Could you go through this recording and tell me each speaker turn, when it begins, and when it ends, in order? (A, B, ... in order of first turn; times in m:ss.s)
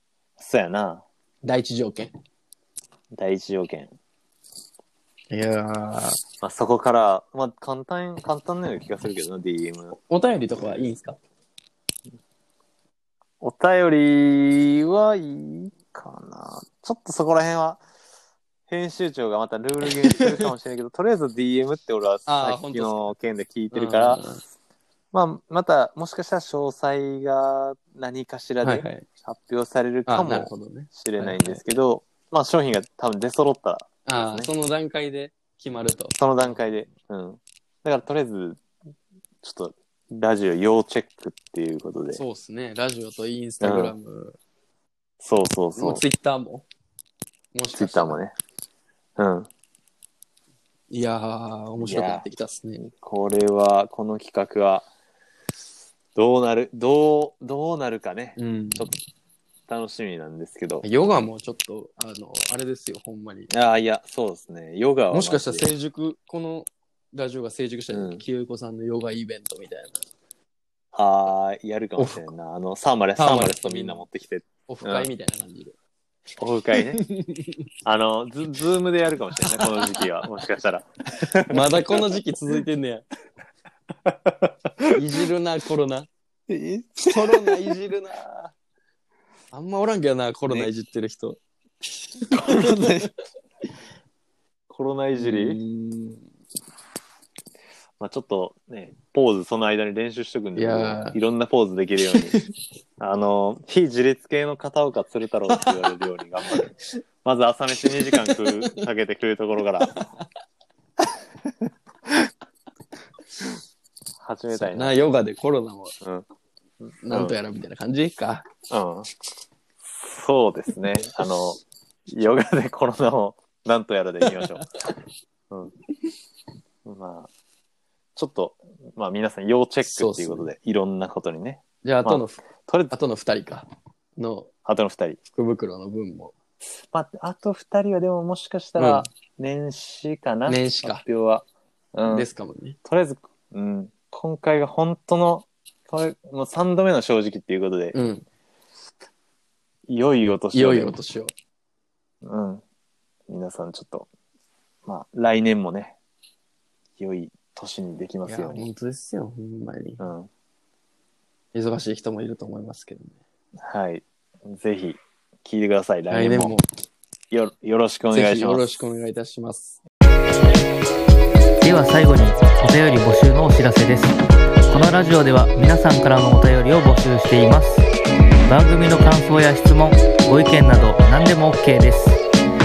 0:00.4-0:01.0 A
0:01.4-0:02.1 B
0:03.1-0:03.9 A
0:05.3-0:06.2 B
0:06.4-0:09.9 A
0:09.9-0:11.2 B
0:13.4-0:17.8 A
0:18.7-0:24.2 A
0:19.9-0:20.5 B
0:22.3-0:23.1 B
0:23.7-0:24.4 B
0:25.1-0:34.5 A
0:28.6-0:29.1 B
0:30.1-0:31.6 B
0:34.1-0:36.7 B
0:36.2-0:38.6 A
0:39.4-0:42.2 A
0:42.1-0:44.4 B
0:43.6-0:44.0 A
0:45.2-0:46.0 A
0:45.8-0:46.7 B
0:47.5-0:48.2 B
0:47.7-0:48.3 A
0:49.2-0:49.5 A
0:50.9-0:52.9 B
0:51.8-0:52.3 A
0:53.0-0:54.9 A
0:56.2-0:59.0 A
0:58.4-0:59.0 B
0:59.7-1:00.9 A
1:00.8-1:03.5 B
1:03.5-1:05.7 A
1:05.1-1:10.0 B
1:07.9-1:08.2 A
1:10.9-1:15.1 A
1:12.0-1:12.3 B
1:13.2-1:14.0 B
1:14.7-1:15.8 B
1:16.4-1:17.0 A
1:16.8-1:17.6 B
1:17.8-1:22.2 A
1:19.4-1:19.9 B
1:21.5-1:23.1 B
1:24.0-1:25.0 A
1:24.9-1:26.1 B
1:26.5-1:27.8 A
1:27.1-1:28.5 B
1:29.5-1:31.4 B
1:32.2-1:33.1 B
1:32.3-1:33.1 A
1:34.7-1:35.6 A
1:35.2-1:36.2 B
1:38.0-1:42.4 A
1:40.6-1:41.2 B
1:42.1-1:42.5 B
1:43.0-1:46.7 A
1:45.5-1:46.8 B
1:47.2-1:50.0 A
1:48.0-1:48.8 B
1:49.9-1:50.2 B
1:54.2-1:55.0 A
1:54.5-1:56.0 B
1:57.0-1:58.5 B
1:57.1-1:57.4 A
1:58.7-1:59.1 A
1:59.8-2:04.7 A
2:04.2-2:04.9 B
2:06.8-2:07.3 A
2:08.2-2:12.9 A
2:09.8-2:10.5 B
2:11.8-2:14.5 B
2:14.6-2:15.2 A
2:15.3-2:16.3 B
2:16.6-2:22.3 A
2:18.8-2:19.1 B
2:20.5-2:21.0 B
2:22.1-2:22.8 B
2:22.8-2:28.0 A
2:27.9-2:28.2 B
2:29.9-2:31.0 A
2:30.5-2:31.3 B
2:32.2-2:32.6 A
2:33.3-2:34.1 A
2:34.9-2:36.0 A
2:37.0-2:38.6 A
2:38.2-2:40.0 B
2:40.0-2:40.3 A
2:41.5-2:43.2 B
2:43.6-2:46.6 A
2:46.1-2:46.7 B
2:47.3-2:48.7 A
2:48.1-2:49.8 B
2:51.6-2:57.9 C
2:58.5-3:02.2 C